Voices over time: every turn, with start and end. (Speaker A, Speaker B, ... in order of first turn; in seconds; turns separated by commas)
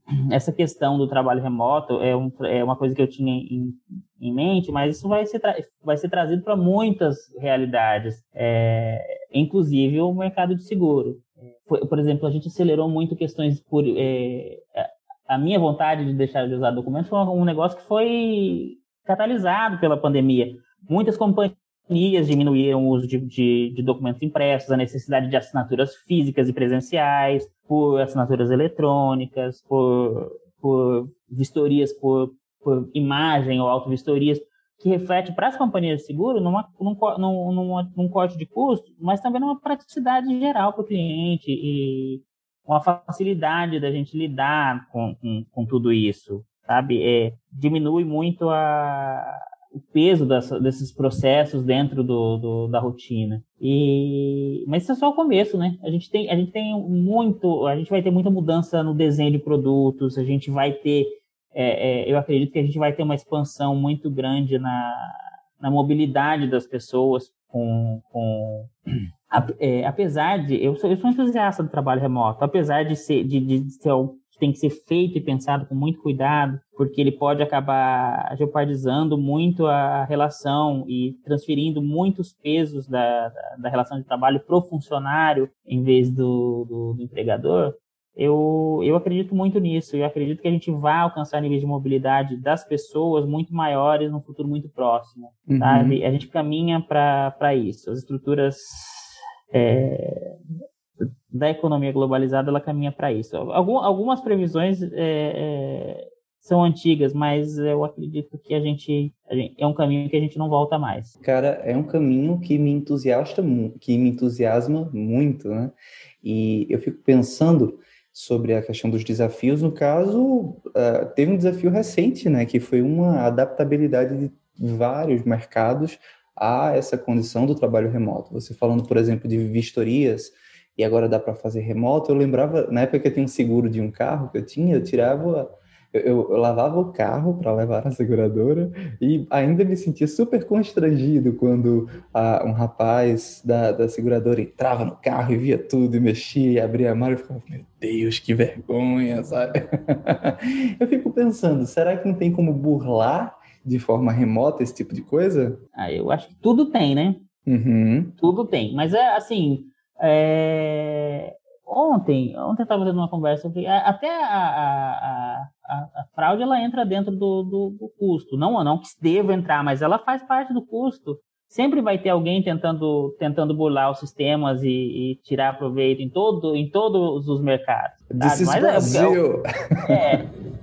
Speaker A: 0.3-68.7, Speaker A: 69.3-100.3, Speaker B: 95.5-96.0, Speaker A: 101.0-111.1, Speaker B: 111.2-155.6, Speaker A: 155.8-157.2, Speaker B: 157.5-158.2, Speaker A: 158.2-179.2, Speaker B: 178.1-180.0, Speaker A: 179.8-180.2